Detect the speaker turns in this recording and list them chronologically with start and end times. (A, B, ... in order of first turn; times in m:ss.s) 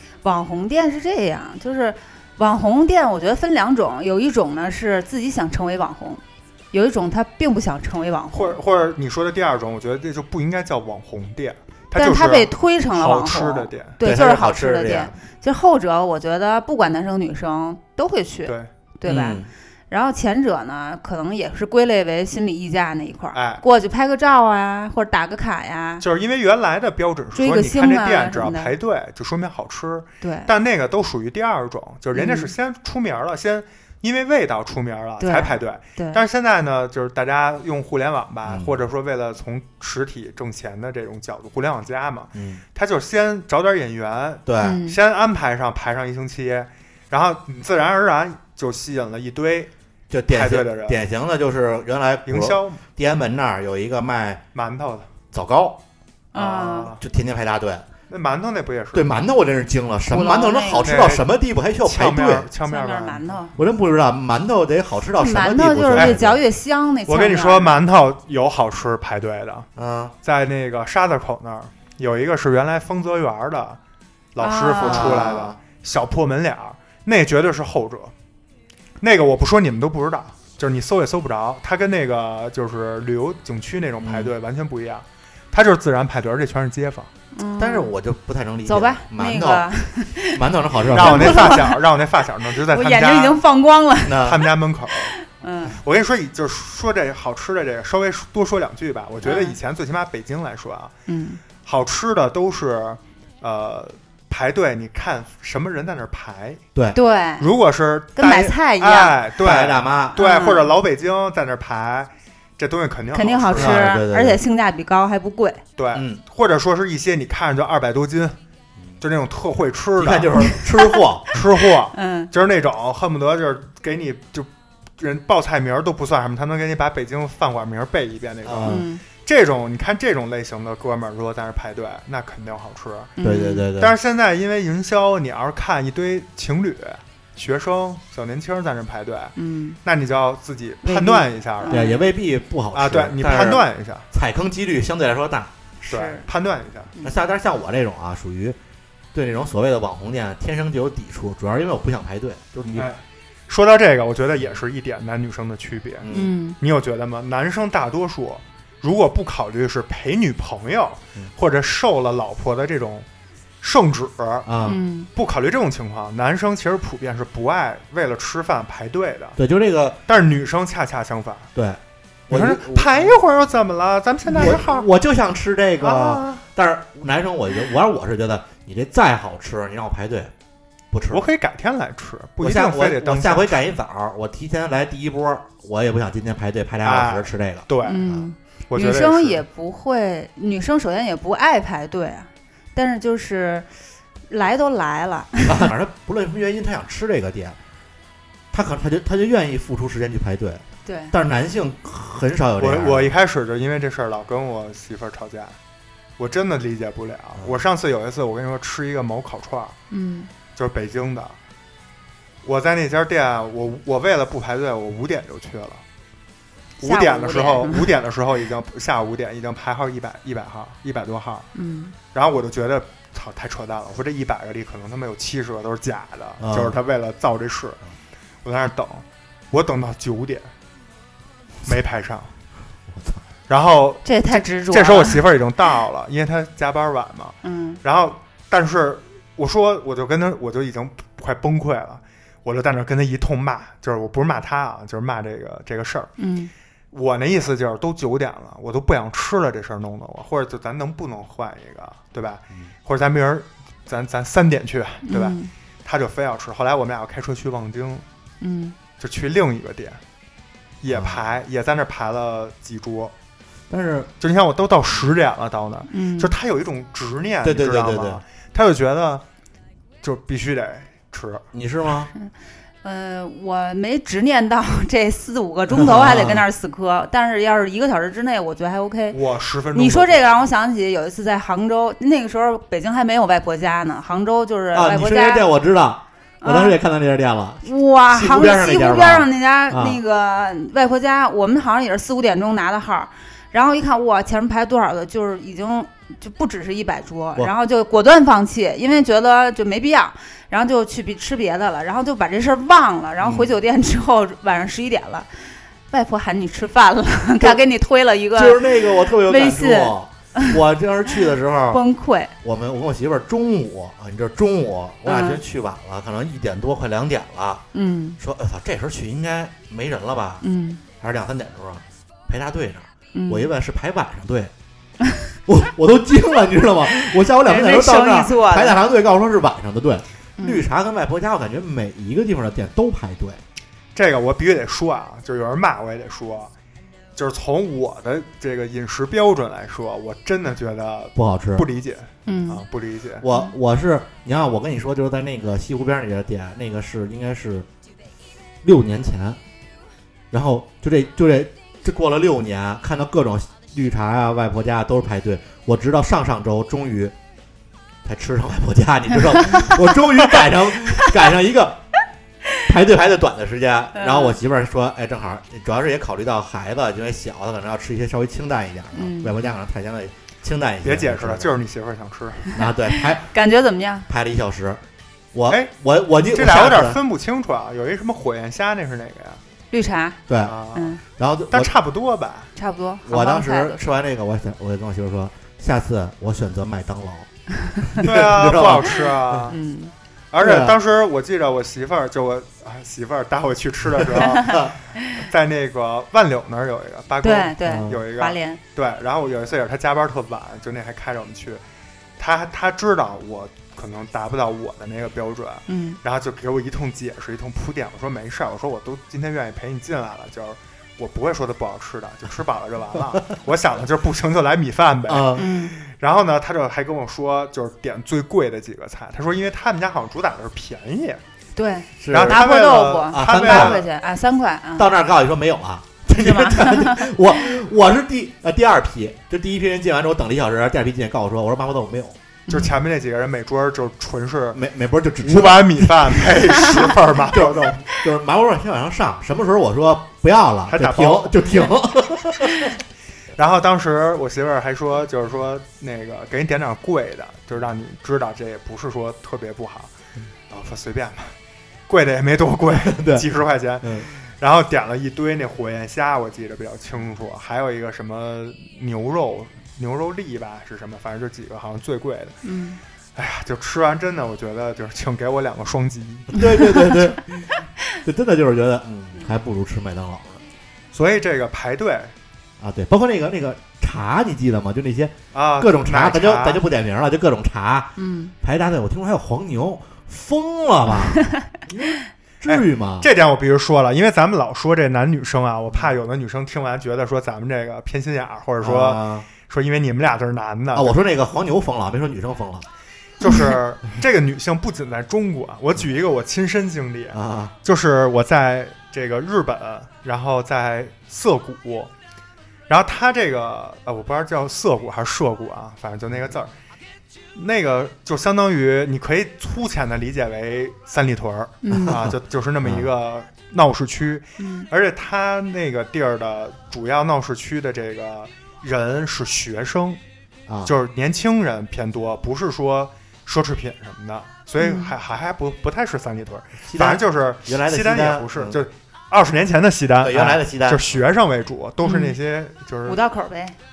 0:00.2-0:06.2 A
0:06.7-0:08.6 A
0:08.3-0:13.9 B
0:12.0-0:26.0 A
0:14.0-0:15.2 C
0:19.0-0:19.5 C
0:23.3-0:23.6 B
0:26.0-0:49.7 B
0:27.3-0:28.7 A
0:30.2-0:30.5 A
0:32.1-0:32.5 A
0:35.2-0:36.2 A
0:38.4-0:38.8 C
0:42.3-0:42.6 C
0:44.4-0:44.8 C
0:44.6-0:45.0 A
0:50.1-0:54.4 C
0:50.3-0:51.0 B
0:52.2-0:52.8 B
0:54.5-0:55.1 B
0:55.3-0:55.8 C
0:56.3-0:56.9 A
0:56.3-0:57.0 B
0:57.0-0:57.8 C
0:58.1-0:59.1 B
0:58.9-1:02.5 C
1:00.1-1:00.9 A
1:00.8-1:01.3 B
1:01.8-1:03.3 B
1:02.6-1:03.5 A
1:03.6-1:06.4 C
1:05.2-1:07.8 A
1:07.1-1:09.7 B
1:09.8-1:10.1 C
1:10.2-1:13.8 B
1:14.3-1:18.1 B
1:14.4-1:15.3 A
1:14.8-1:15.6 C
1:19.0-1:27.1 B
1:24.0-1:24.3 C
1:27.3-1:27.9 A
1:27.6-1:29.7 C
1:28.6-1:31.8 A
1:30.3-1:31.6 C
1:30.9-1:33.4 B
1:32.7-1:34.4 A
1:34.0-1:34.4 C
1:34.2-1:35.1 B
1:35.2-1:35.8 A
1:35.7-1:40.9 B
1:39.2-1:39.6 A
1:41.1-1:41.4 A
1:41.6-1:46.6 B
1:46.9-1:47.5 A
1:47.4-1:53.9 B
1:48.2-1:49.2 A
1:49.4-1:50.2 C
1:50.2-1:50.7 A
1:53.1-1:55.6 A
1:53.5-1:54.4 C
1:55.8-1:58.4 B
1:55.9-1:56.2 C
1:59.0-2:00.5 B
2:00.0-2:01.4 C
2:01.3-2:13.1 B
2:01.9-2:02.3 A
2:08.4-2:08.8 C
2:08.6-2:09.0 A
2:13.2-2:13.7 A
2:13.2-2:14.0 C
2:13.8-2:21.9 B
2:19.4-2:19.8 A
2:20.8-2:22.0 A
2:21.7-2:25.5 C
2:22.7-2:24.0 B
2:25.8-2:26.2 A
2:25.8-2:26.9 B
2:27.0-2:28.6 C
2:29.1-2:32.9 C
2:32.8-2:36.1 B
2:36.0-2:36.3 C
2:36.1-2:36.6 A
2:36.6-2:43.0 B
2:43.6-2:44.5 B
2:44.4-2:44.8 C
2:44.6-2:45.1 A
2:45.1-2:49.4 B
2:49.4-2:50.0 C
2:50.1-2:51.5 B
2:51.5-2:53.2 C
2:52.3-2:54.9 B
2:54.3-3:00.3 C
2:55.8-2:56.4 B
3:00.9-3:01.2 C
3:01.1-3:03.6 B
3:02.4-3:08.2 C
3:06.8-3:08.1 B
3:07.8-3:13.7 A
3:08.7-3:09.4 B
3:14.3-3:15.6 A
3:15.4-3:17.6 C
3:18.5-3:23.1 C
3:20.8-3:21.1 A
3:22.6-3:25.6 B
3:26.2-3:29.8 B
3:29.9-3:30.3 A
3:30.6-3:31.4 B
3:32.4-3:35.8 B
3:36.8-3:41.5 B
3:36.8-3:37.9 A
3:41.5-3:41.9 A
3:42.1-3:47.8 B
3:46.4-3:46.8 C
3:48.4-3:50.5 B
3:51.6-3:52.3 B
3:52.9-3:53.2 C
3:53.5-4:06.1 B
3:54.0-3:55.2 A
3:57.4-3:57.8 A
4:06.2-4:06.5 A
4:06.9-4:18.0 B
4:15.0-4:15.5 A
4:18.4-4:18.8 A
4:19.0-4:20.0 B
4:20.8-4:23.1 B
4:20.9-4:21.2 C
4:23.7-4:24.1 C
4:24.2-4:29.2 B
4:25.9-4:26.3 A
4:27.4-4:28.2 C
4:30.0-4:31.4 B
4:31.5-4:32.1 C
4:32.8-4:39.2 A
4:35.7-4:36.4 C
4:39.1-4:40.2 B
4:39.7-4:45.5 A
4:44.7-4:50.0 C
4:46.4-4:46.8 A
4:47.6-5:10.6 A
5:03.2-5:03.5 C
5:08.3-5:11.8 C
5:11.7-5:12.3 A
5:12.4-5:17.6 C
5:15.0-5:15.4 A
5:17.7-5:18.2 A
5:18.2-5:20.4 C
5:20.4-5:20.8 A
5:21.0-5:24.5 C
5:23.1-5:23.5 A
5:25.5-5:33.4 C
5:27.4-5:28.8 A
5:30.4-5:30.6 A
5:33.9-5:36.5 B
5:37.2-5:43.2 B
5:41.1-5:41.7 C
5:42.2-5:42.6 A
5:43.2-5:47.7 C
5:48.6-5:49.4 C
5:50.3-5:57.1 C
5:58.0-6:01.8 C
6:02.6-6:11.6 C
6:03.9-6:04.4 A
6:08.9-6:09.3 A
6:10.8-6:12.5 B
6:12.5-6:13.3 C
6:12.6-6:14.1 A
6:14.1-6:14.8 C
6:15.3-6:17.0 C
6:16.2-6:19.4 B
6:19.7-6:20.2 A
6:20.3-6:20.6 C
6:20.4-6:20.9 B
6:20.7-6:21.0 A
6:21.2-6:21.7 C
6:21.5-6:22.5 B
6:22.6-6:23.8 A
6:23.0-6:27.3 C
6:27.8-6:29.5 C
6:28.0-6:29.6 B
6:29.5-6:29.9 A
6:30.3-6:41.6 B
6:30.4-6:30.8 C
6:34.0-6:34.7 C
6:37.2-6:38.6 A
6:37.6-6:38.0 C
6:42.2-7:01.2 B
6:45.7-6:46.0 A
6:55.1-6:55.5 C
6:55.4-6:55.8 A
7:01.6-7:04.9 A
7:02.0-7:02.5 C
7:02.1-7:03.9 B
7:03.1-7:03.8 C
7:04.8-7:12.2 C
7:06.1-7:07.0 A
7:12.5-7:14.6 B
7:14.5-7:22.8 C
7:15.2-7:17.8 B
7:20.7-7:21.5 B
7:23.4-7:29.9 B
7:30.5-7:31.3 B
7:31.9-7:42.4 B
7:32.7-7:33.3 C
7:33.8-7:34.1 C
7:42.4-7:42.8 A
7:43.2-7:46.5 B
7:46.3-7:50.4 C
7:50.9-7:52.1 B
7:52.6-8:03.1 C
7:55.3-7:56.6 B
7:58.0-7:58.3 A
8:02.4-8:11.0 B
8:08.6-8:09.3 C
8:10.7-8:12.6 C
8:13.2-8:21.9 B
8:17.1-8:17.5 C
8:22.7-8:26.5 B
8:27.3-8:40.0 B
8:31.6-8:32.0 A
8:31.8-8:32.9 C
8:34.4-8:34.7 A
8:40.5-8:40.7 C
8:40.6-8:53.0 B
8:44.6-8:44.9 A
8:46.6-8:48.6 C
8:50.0-8:51.0 C
8:51.8-8:52.1 A
8:52.9-8:53.6 A